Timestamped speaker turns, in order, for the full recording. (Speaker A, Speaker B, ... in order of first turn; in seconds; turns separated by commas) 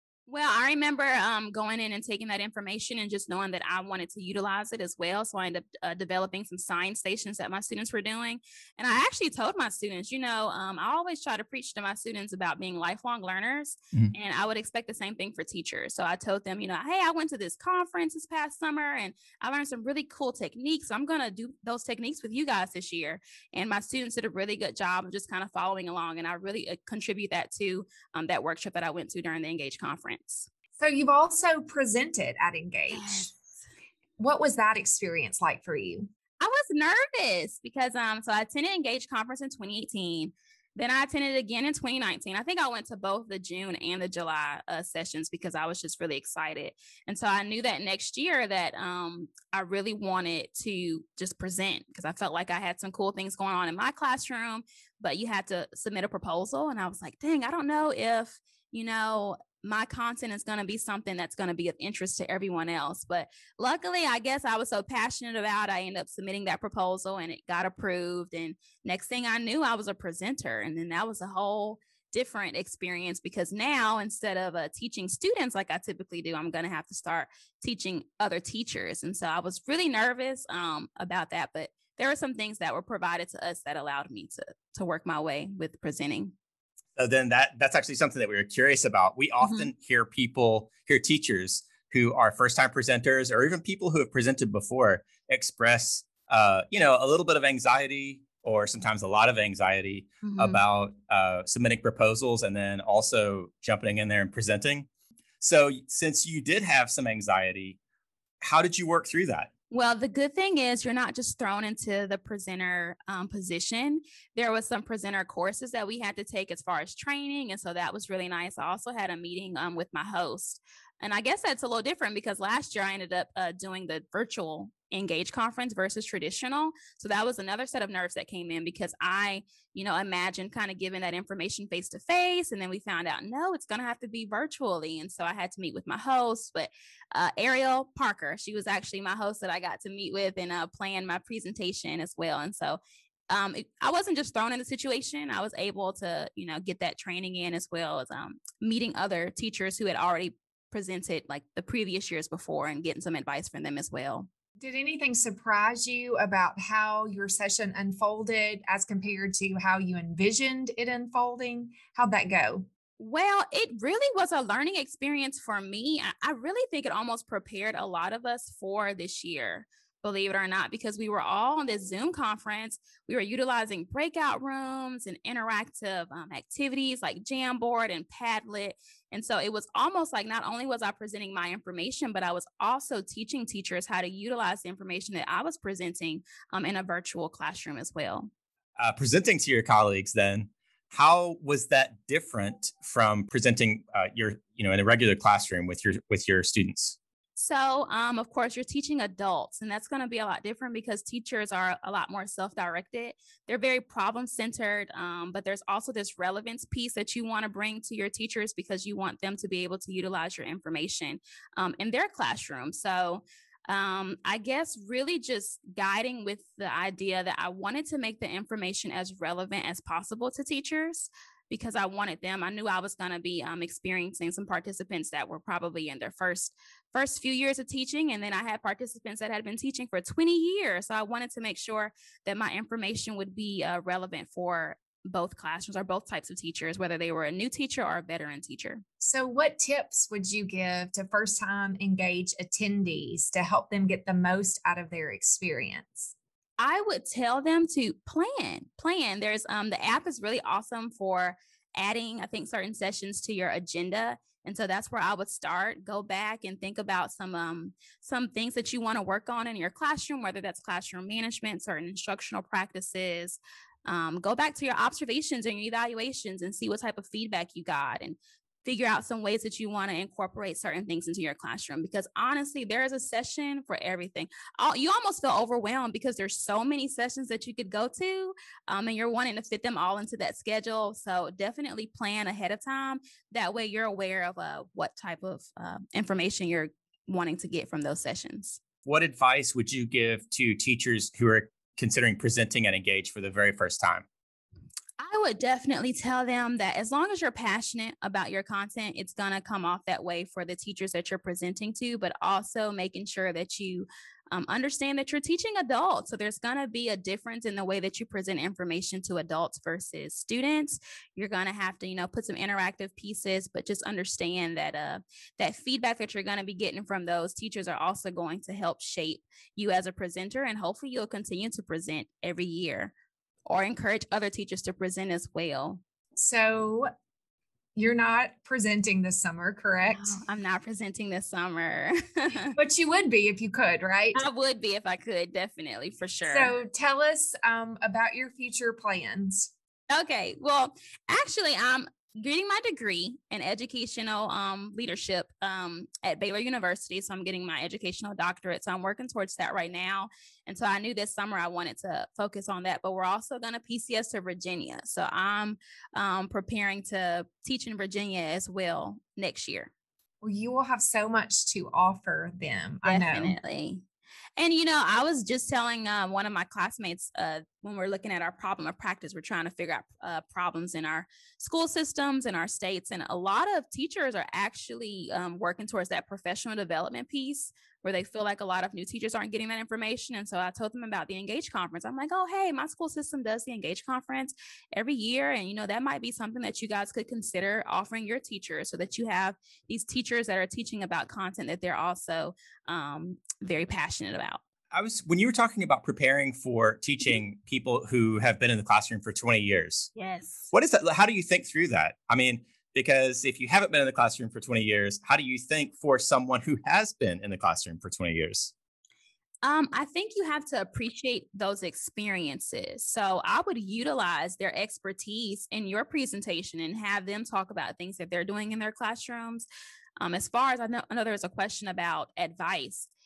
Speaker A: 0.3-30.5, Speaker B: 30.8-33.3, Speaker A: 32.9-33.3, Speaker B: 34.2-36.1, Speaker A: 36.4-86.3, Speaker C: 87.0-104.9, Speaker A: 100.2-100.6, Speaker C: 105.4-107.8, Speaker C: 108.4-109.5, Speaker A: 109.7-154.3, Speaker B: 154.6-162.7, Speaker A: 163.0-188.3, Speaker C: 188.8-197.0, Speaker A: 197.4-238.8, Speaker B: 239.0-246.1, Speaker A: 246.6-288.6, Speaker C: 288.8-294.0, Speaker A: 295.0-322.9, Speaker A: 323.4-325.8, Speaker B: 326.1-326.9, Speaker B: 327.8-330.2, Speaker A: 329.9-332.5, Speaker B: 332.5-334.2, Speaker A: 334.1-336.5, Speaker B: 336.3-339.5, Speaker A: 339.9-359.7, Speaker B: 360.2-363.4, Speaker A: 362.8-363.8, Speaker A: 364.4-394.4, Speaker C: 394.7-399.9, Speaker A: 399.9-400.5, Speaker C: 400.5-408.5, Speaker A: 409.4-419.5, Speaker A: 420.0-422.9